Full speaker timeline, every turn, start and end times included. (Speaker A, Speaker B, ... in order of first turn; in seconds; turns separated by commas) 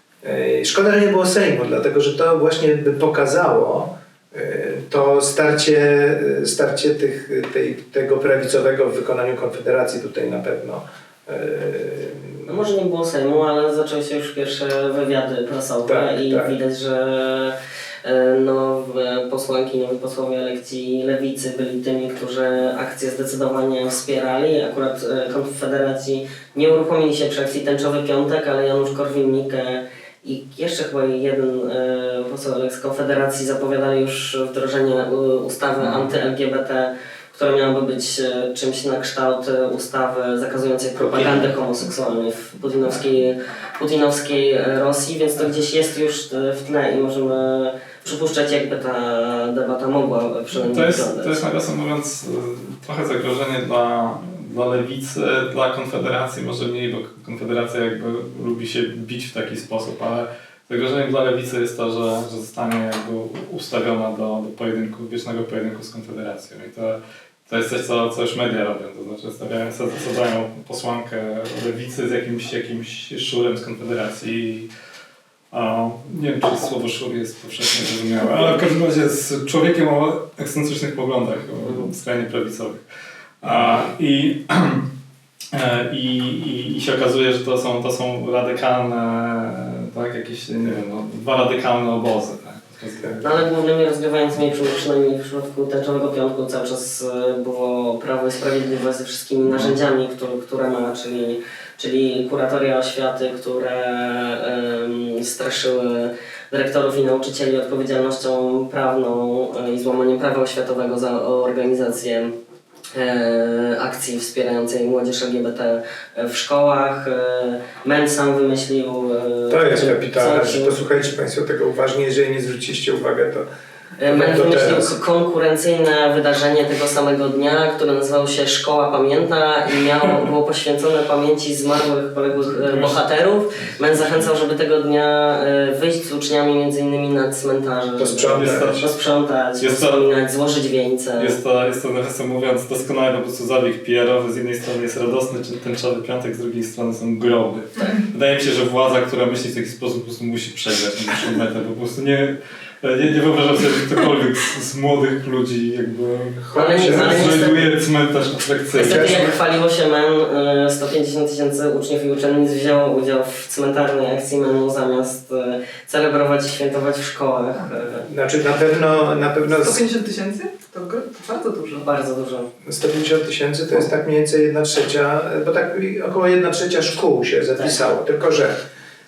Speaker A: 0.2-12.6, Speaker B: 12.4-51.4, Speaker A: 15.9-16.6, Speaker C: 50.6-74.7, Speaker C: 75.5-82.8, Speaker C: 83.4-84.9, Speaker C: 85.5-93.4, Speaker B: 93.2-112.3, Speaker B: 112.9-120.8, Speaker A: 119.5-123.5, Speaker B: 124.0-141.4, Speaker A: 124.0-125.0, Speaker C: 132.5-133.0, Speaker C: 133.6-134.3, Speaker A: 138.0-138.9, Speaker C: 138.3-138.9, Speaker C: 139.6-140.0, Speaker C: 141.2-159.3, Speaker A: 156.5-157.5, Speaker B: 156.5-157.7, Speaker B: 158.7-168.1, Speaker A: 158.8-159.3, Speaker A: 168.0-169.8, Speaker D: 169.4-171.9, Speaker B: 171.8-172.5, Speaker A: 172.6-178.6